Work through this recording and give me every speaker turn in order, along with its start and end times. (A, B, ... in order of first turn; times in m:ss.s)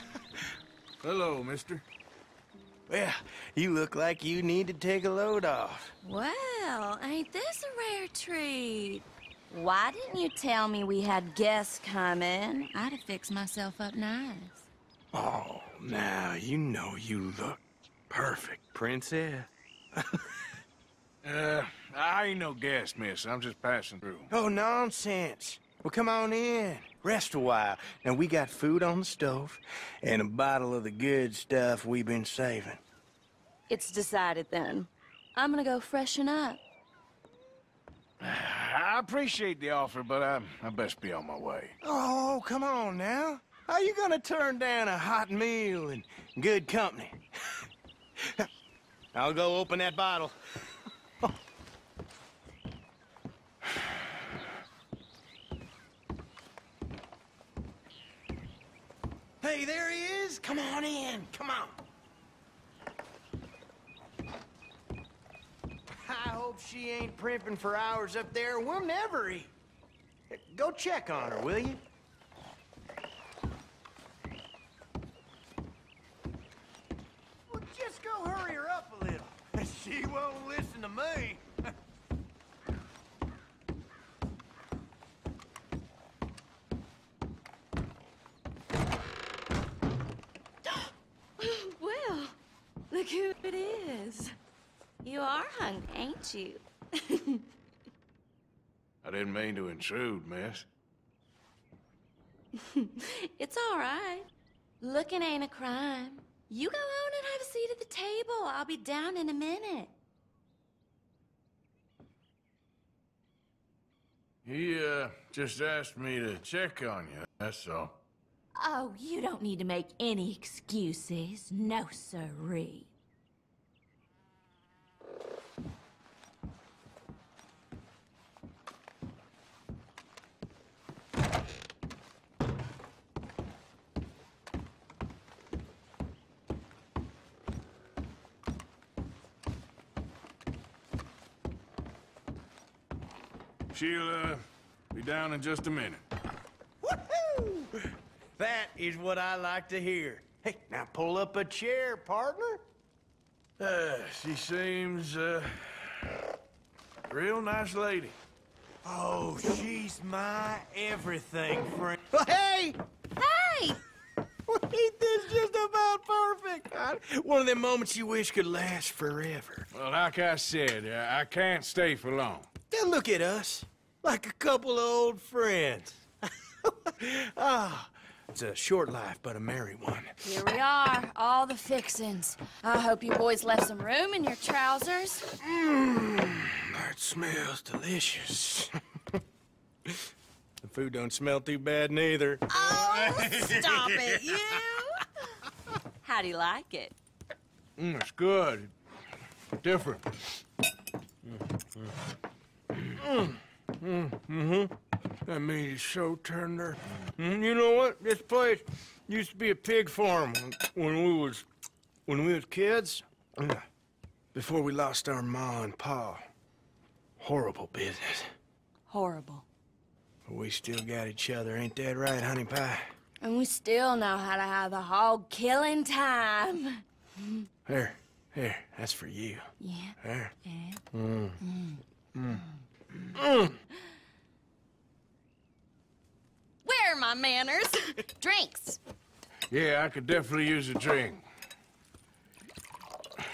0:01.0-0:01.8 A
0:02.9-0:05.9 B
0:06.0-0:14.7 C
0:15.1-0:20.2 B
0:21.2-0:24.3 A
0:24.3-0:32.8 B
0:33.7-0:36.6 C
0:38.2-0:41.8 A
0:41.8-0:47.2 B
0:48.2-0:48.5 B
0:49.1-0:50.4 B
0:59.4-1:01.8 B
1:06.0-1:09.5 B
1:10.3-1:11.8 B
1:17.5-1:21.4 B
1:30.7-1:32.4 C
1:32.9-1:34.3 C
1:35.0-1:37.4 C
1:39.0-1:40.7 A
1:42.6-1:44.3 C
1:44.8-1:49.9 C
1:54.4-1:58.0 A
1:58.5-2:02.9 C
2:23.7-2:26.0 A
2:26.8-2:32.6 B
2:33.6-2:36.2 A
2:37.1-2:38.2 A
2:38.8-2:42.8 B
2:43.2-2:43.8 C
2:44.5-2:49.7 B
2:49.7-2:52.5 A
2:52.7-2:56.1 B
2:56.6-3:00.2 B
3:00.2-3:05.3 C
3:05.4-3:08.7 B
3:10.6-3:12.5 B
3:12.5-3:15.1 C
3:16.0-3:17.0 C
3:17.8-3:18.7 A
3:19.6-3:20.3 A
3:22.9-3:24.7 B
3:25.2-3:31.5 B
3:32.1-3:33.6 B
3:34.3-3:36.2 B
3:37.2-3:38.3 B
3:38.9-3:39.5 C
3:40.3-3:42.9 B
3:43.2-3:47.4 C
3:47.7-3:49.5 B
3:49.6-3:50.8 C
3:50.0-3:50.3 B
3:50.9-3:51.4 B
3:51.4-3:51.8 C
3:53.2-3:53.6 B
3:56.6-3:58.8 C
3:59.5-4:01.2 A